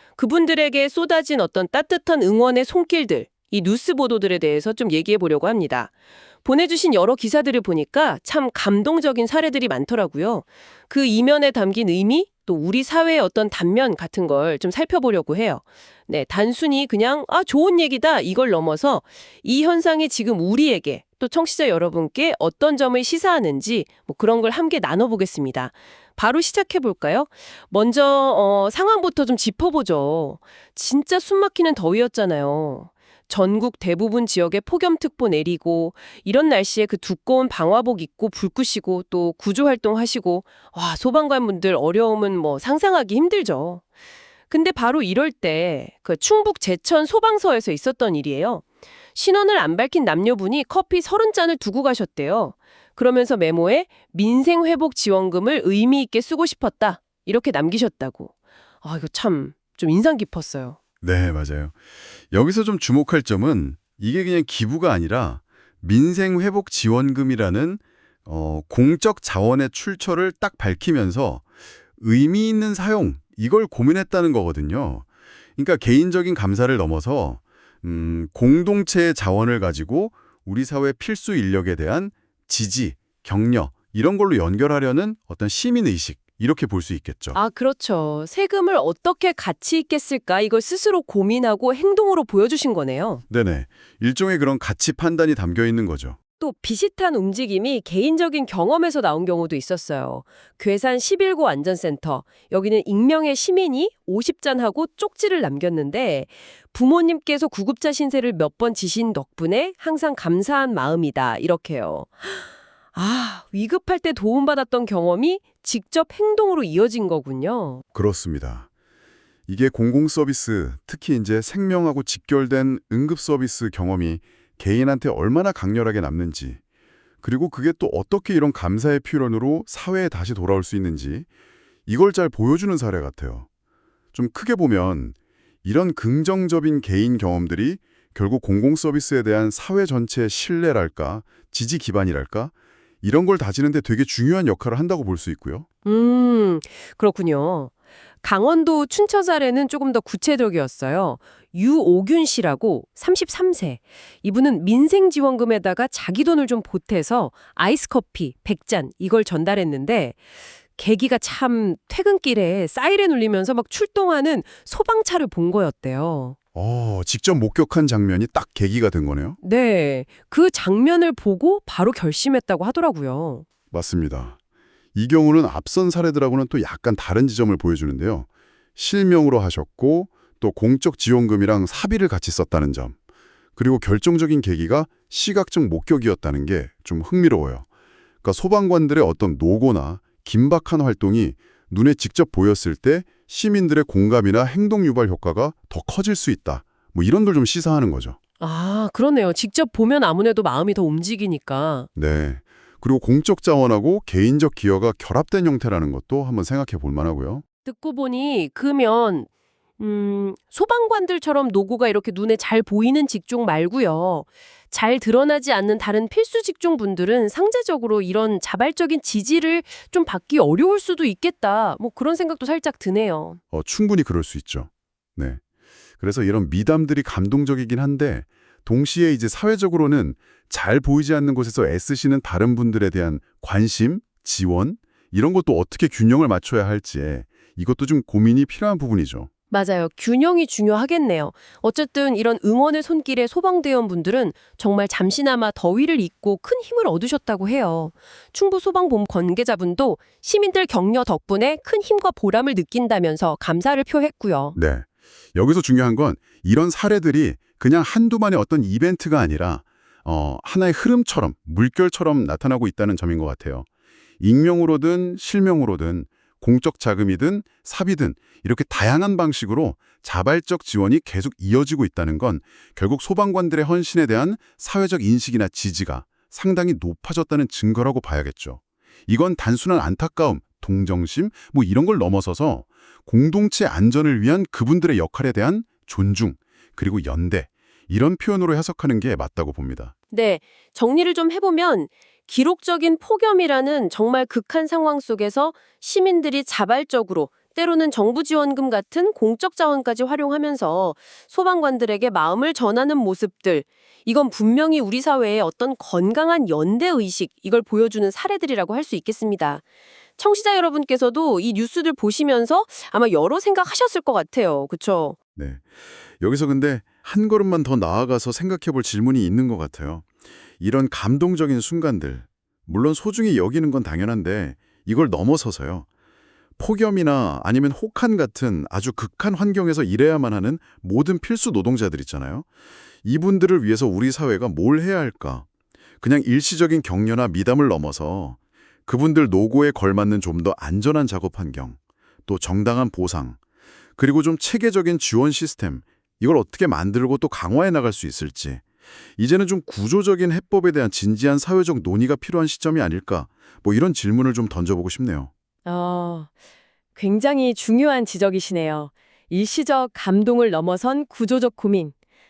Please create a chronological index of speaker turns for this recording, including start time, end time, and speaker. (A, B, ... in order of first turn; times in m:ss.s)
0:00.2-0:05.9 A
0:06.4-0:43.8 A
0:44.5-0:48.6 A
0:49.2-1:00.8 A
1:01.0-1:01.8 B
1:02.3-1:11.5 B
1:12.0-1:27.4 B
1:27.3-1:33.2 A
1:33.3-1:36.2 B
1:36.4-1:52.4 A
1:53.0-1:57.8 A
1:57.9-1:58.7 B
1:59.5-2:06.6 B
2:07.2-2:11.3 B
2:11.9-2:13.5 B
2:14.1-2:25.7 B
2:25.8-2:40.2 A
2:40.8-2:46.4 A
2:46.6-2:49.4 B
2:49.4-2:53.4 A
2:53.7-2:54.4 B
2:55.0-3:03.0 B
3:03.6-3:07.7 B
3:08.2-3:18.2 B
3:18.4-3:21.9 A
3:22.0-3:27.4 B
3:27.6-3:43.4 A
3:43.5-3:45.4 B
3:46.0-3:59.3 B
3:59.5-4:14.6 A
4:14.6-4:23.7 B
4:24.2-4:49.9 B
4:50.1-5:09.6 A
5:10.2-5:15.2 A
5:15.4-5:25.9 B
5:26.6-5:32.5 B
5:33.0-5:35.5 B
5:36.0-5:43.4 B
5:44.0-5:48.6 B
5:49.2-5:55.3 B
5:55.7-5:56.3 C
5:57.0-6:01.9 C